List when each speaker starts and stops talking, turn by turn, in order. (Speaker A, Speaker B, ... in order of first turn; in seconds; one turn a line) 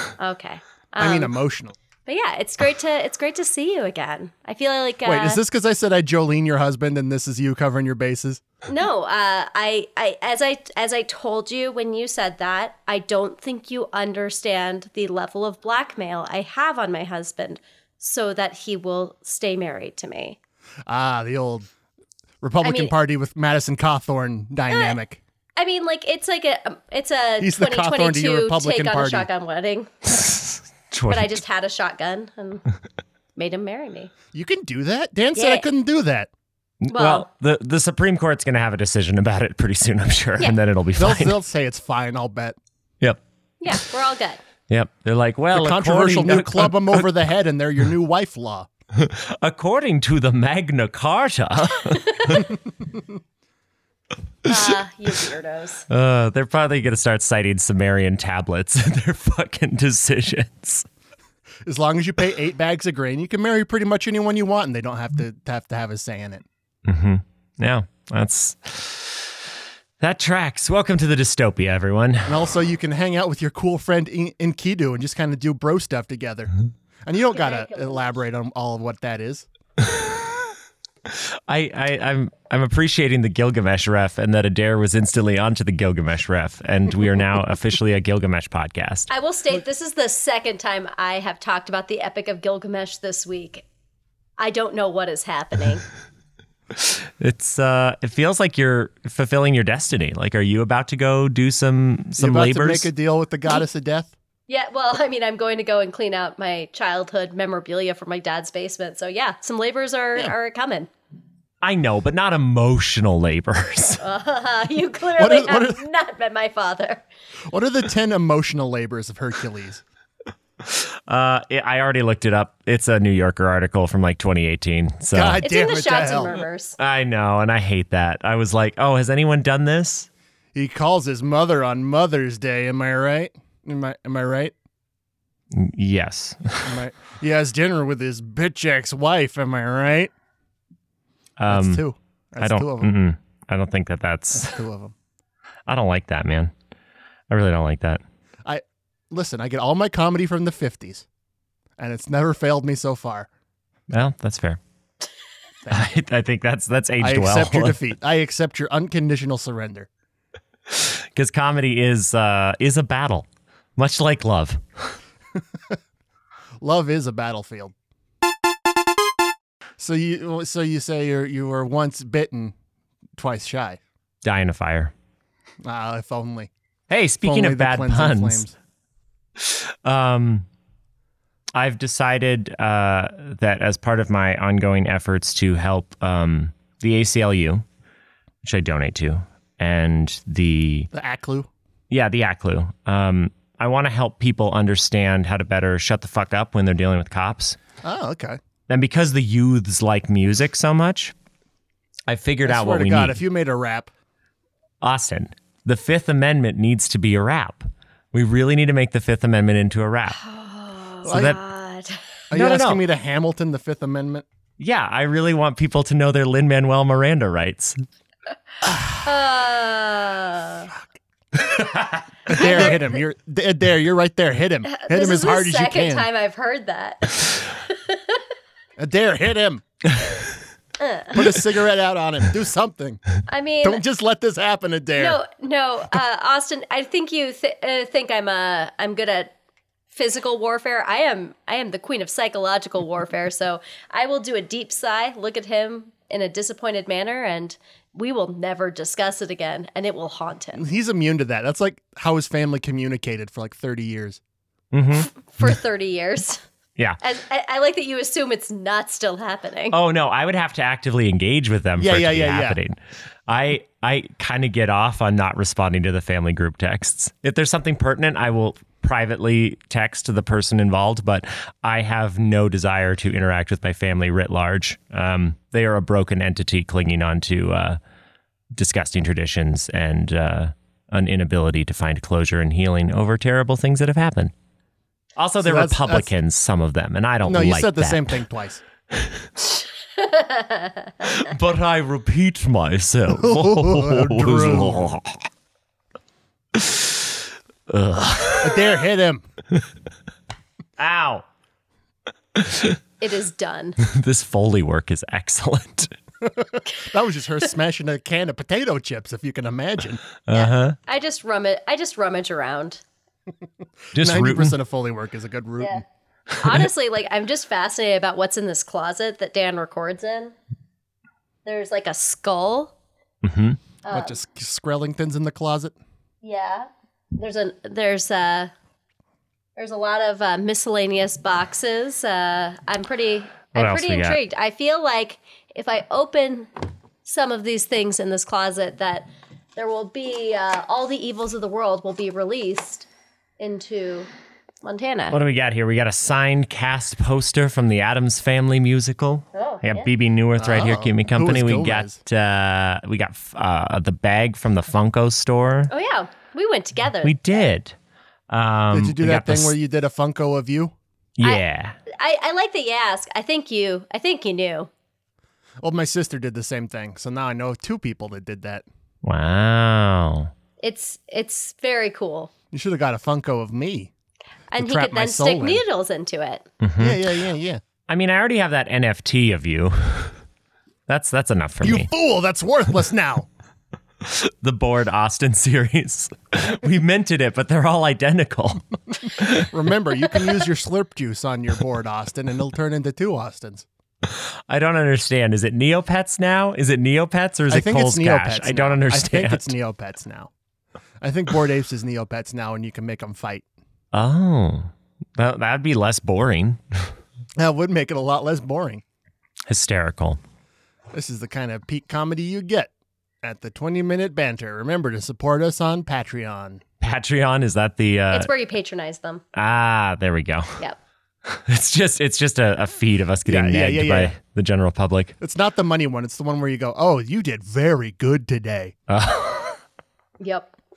Speaker A: 0.2-1.3
Speaker B: 1.0-1.8
Speaker A: 2.1-5.4
Speaker B: 5.0-8.4
Speaker A: 8.7-20.4
Speaker B: 20.9-21.7
Speaker B: 22.4-25.2
Speaker A: 22.6-22.9
Speaker A: 24.7-25.0
Speaker A: 25.6-29.9
Speaker B: 27.4-29.3
Speaker C: 30.1-31.4
Speaker A: 31.1-32.6
Speaker A: 33.4-34.1
Speaker B: 34.3-36.3
Speaker A: 35.4-35.7
Speaker C: 36.8-41.4
Speaker A: 36.9-37.3
Speaker B: 41.0-42.6
Speaker C: 43.0-43.9
Speaker A: 43.6-44.4
Speaker C: 44.7-47.1
Speaker B: 45.5-48.7
Speaker C: 49.0-52.5
Speaker A: 51.9-52.4
Speaker A: 54.5-55.9
Speaker C: 55.9-60.9
Speaker B: 61.6-66.5
Speaker C: 66.9-69.4
Speaker C: 70.0-72.4
Speaker B: 72.3-76.5
Speaker B: 77.0-79.5
Speaker A: 77.3-78.2
Speaker C: 81.1-89.1
Speaker A: 89.1-93.7
Speaker A: 94.4-95.9
Speaker C: 96.8-102.9
Speaker B: 102.2-104.2
Speaker A: 104.5-110.9
Speaker C: 111.6-114.0
Speaker A: 114.0-117.1
Speaker B: 115.2-115.8
Speaker B: 117.5-119.8
Speaker C: 120.6-125.5
Speaker B: 125.1-126.4
Speaker A: 125.4-126.8
Speaker C: 126.8-130.1
Speaker B: 130.5-134.5
Speaker C: 135.5-136.8
Speaker B: 136.7-140.1
Speaker C: 141.4-141.8
Speaker B: 141.5-143.0
Speaker C: 142.4-144.6
Speaker B: 144.3-144.9
Speaker C: 145.7-146.5
Speaker C: 147.3-148.0
Speaker B: 148.4-151.1
Speaker B: 151.8-153.3
Speaker C: 153.9-154.6
Speaker C: 155.7-157.8
Speaker B: 157.0-159.9
Speaker C: 160.7-163.3
Speaker C: 163.8-164.6
Speaker B: 166.6-167.7
Speaker B: 169.8-172.5
Speaker B: 173.2-173.8
Speaker C: 174.2-174.9
Speaker B: 175.6-176.5
Speaker C: 176.9-178.4
Speaker B: 177.2-178.6
Speaker C: 179.4-180.5
Speaker C: 181.6-187.6
Speaker C: 188.4-190.9
Speaker B: 190.9-191.5
Speaker C: 191.9-197.6
Speaker B: 197.8-198.4
Speaker C: 198.7-201.1
Speaker C: 202.1-203.2
Speaker B: 202.4-203.9
Speaker C: 204.8-210.2
Speaker A: 210.2-212.0
Speaker C: 211.1-211.4
Speaker B: 211.1-211.4
Speaker B: 212.3-214.3
Speaker C: 212.3-212.8
Speaker C: 214.6-217.8
Speaker A: 219.0-220.7
Speaker C: 221.6-222.0
Speaker B: 222.3-226.1
Speaker A: 222.3-222.8
Speaker A: 224.7-228.2
Speaker B: 228.8-229.6
Speaker C: 230.0-230.3
Speaker A: 230.8-231.3
Speaker B: 231.1-233.1
Speaker A: 233.3-233.8
Speaker B: 233.6-235.2
Speaker A: 235.0-239.3
Speaker A: 239.9-250.6
Speaker B: 250.6-254.2
Speaker C: 254.7-255.1
Speaker A: 255.0-256.4
Speaker A: 257.0-259.8
Speaker C: 259.7-277.8
Speaker B: 261.8-262.6
Speaker C: 278.6-284.3
Speaker C: 285.2-288.2
Speaker B: 285.4-286.1
Speaker B: 287.2-288.6
Speaker C: 289.0-289.3
Speaker A: 290.0-290.9
Speaker C: 291.0-295.2
Speaker B: 293.1-294.9
Speaker C: 296.6-297.1
Speaker C: 297.7-298.7
Speaker B: 298.4-299.2
Speaker C: 300.8-301.3
Speaker C: 302.4-302.8
Speaker A: 303.0-303.8
Speaker C: 303.8-305.9
Speaker B: 306.2-310.0
Speaker C: 310.3-310.8
Speaker A: 310.3-312.8
Speaker C: 313.9-314.6
Speaker B: 313.9-315.8
Speaker A: 316.4-320.3
Speaker A: 321.4-322.7
Speaker C: 323.2-323.6
Speaker A: 323.8-324.2
Speaker B: 323.9-325.8
Speaker A: 326.2-328.5
Speaker A: 329.6-336.5
Speaker C: 333.6-334.2
Speaker A: 337.1-342.9
Speaker A: 343.4-344.1
Speaker A: 344.6-345.2
Speaker C: 345.1-355.7
Speaker A: 349.3-349.9
Speaker B: 350.4-352.0
Speaker A: 355.7-357.5
Speaker C: 357.0-357.8
Speaker C: 358.3-359.6
Speaker B: 358.7-360.7
Speaker C: 361.2-361.8
Speaker A: 361.2-364.7
Speaker B: 365.6-368.6
Speaker C: 369.0-370.3
Speaker A: 370.6-372.3
Speaker B: 372.5-373.9
Speaker A: 374.5-376.5
Speaker B: 374.6-375.6
Speaker C: 376.6-377.1
Speaker B: 376.8-377.6
Speaker C: 377.9-380.2
Speaker C: 380.9-381.9
Speaker B: 381.6-383.3
Speaker C: 384.0-389.5
Speaker B: 389.4-393.7
Speaker C: 394.1-399.6
Speaker B: 397.5-400.3
Speaker B: 401.0-403.4
Speaker C: 403.9-406.9
Speaker B: 407.4-408.8
Speaker C: 409.5-410.2
Speaker B: 410.9-412.7
Speaker B: 413.2-416.6
Speaker C: 416.8-418.3
Speaker A: 418.1-419.2
Speaker C: 419.3-420.6
Speaker C: 421.3-425.1
Speaker B: 423.3-424.1
Speaker B: 425.2-428.8
Speaker C: 428.9-429.6
Speaker A: 430.2-430.5